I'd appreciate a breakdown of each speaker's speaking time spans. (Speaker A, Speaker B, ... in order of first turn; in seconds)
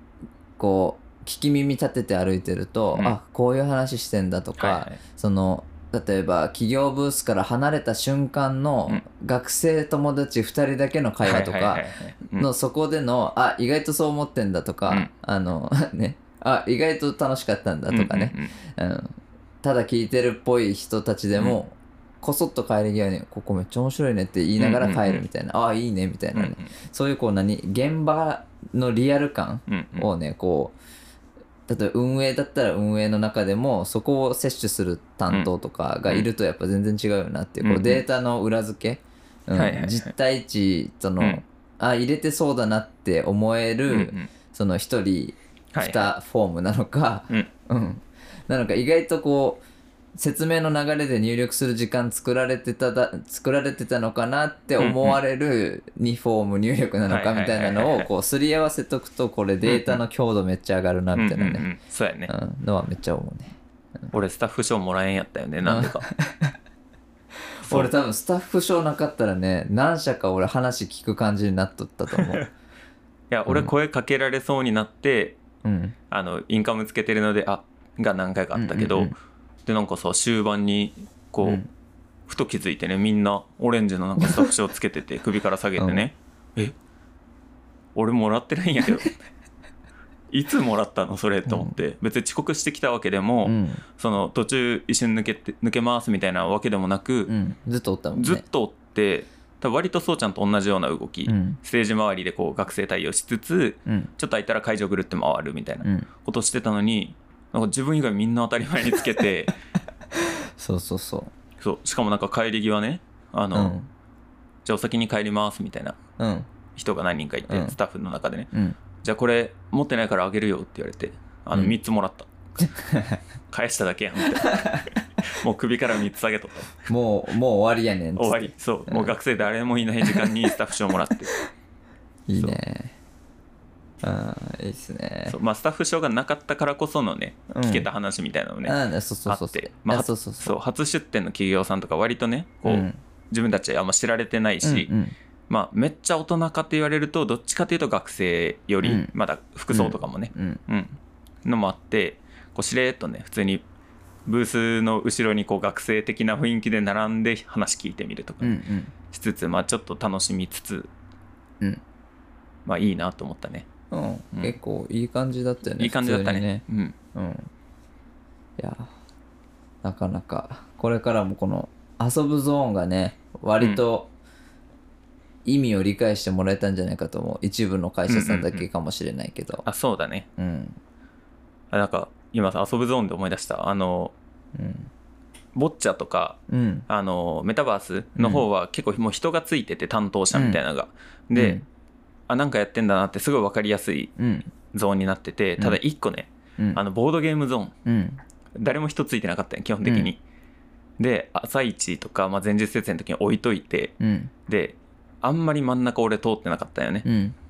Speaker A: 0.6-30.8, 31.7-49.6, 50.2-61.7, 62.3-64.1, 65.6-66.5, 67.5-72.5, 75.6-76.0, 78.5-79.2, 81.4-81.7, 84.2-84.5, 85.8-86.1, 91.5-91.8, 93.4-93.8, 97.3-98.5, 101.3-101.6, 103.9-104.1, 105.8-106.1, 110.6-111.3, 113.5-113.9, 116.2-116.5, 117.5-117.8, 122.6-123.2, 124.2-125.2, 126.9-129.1, 130.1-130.5, 131.1-131.5, 132.3-133.0, 134.0-135.4, 137.5-137.9, 138.6-140.6, 142.7-143.0, 144.6-145.2, 148.8-149.1, 149.7-150.6, 158.4-158.9, 163.9-166.6, 167.1-167.5, 168.6-168.9, 169.8-174.1, 175.4-179.7, 180.4-180.8, 184.6-184.9, 186.5-186.9, 188.2-188.4, 190.3-190.6, 191.3-191.7, 194.2-194.5, 197.9-198.2, 199.8-200.1, 204.0-204.3, 207.1-207.3
Speaker B: 4.6-5.0, 11.2-12.5, 17.9-18.5, 24.6-25.2, 26.3-26.7, 29.7-30.1, 37.6-38.0, 39.5-40.1, 43.9-44.3, 45.7-46.1, 54.8-55.2, 57.1-58.1, 59.6-60.0, 61.1-62.3, 64.1-66.1, 72.1-72.4, 73.3-75.4, 76.1-79.1, 79.7-81.6, 82.3-86.8, 88.0-89.1, 90.3-97.3, 98.1-109.5, 111.6-113.8, 114.7-116.0, 116.8-118.5, 119.0-122.3, 123.5-126.9, 128.2-131.3, 135.3-138.8, 139.3-144.9, 145.5-153.6, 154.3-160.9, 162.7-163.7, 165.8-167.0, 178.1-178.7, 179.7-180.3, 181.7-184.1, 185.5-191.6, 192.3-194.1, 194.7-197.7, 198.6-200.2, 201.0-203.9, 204.5-207.1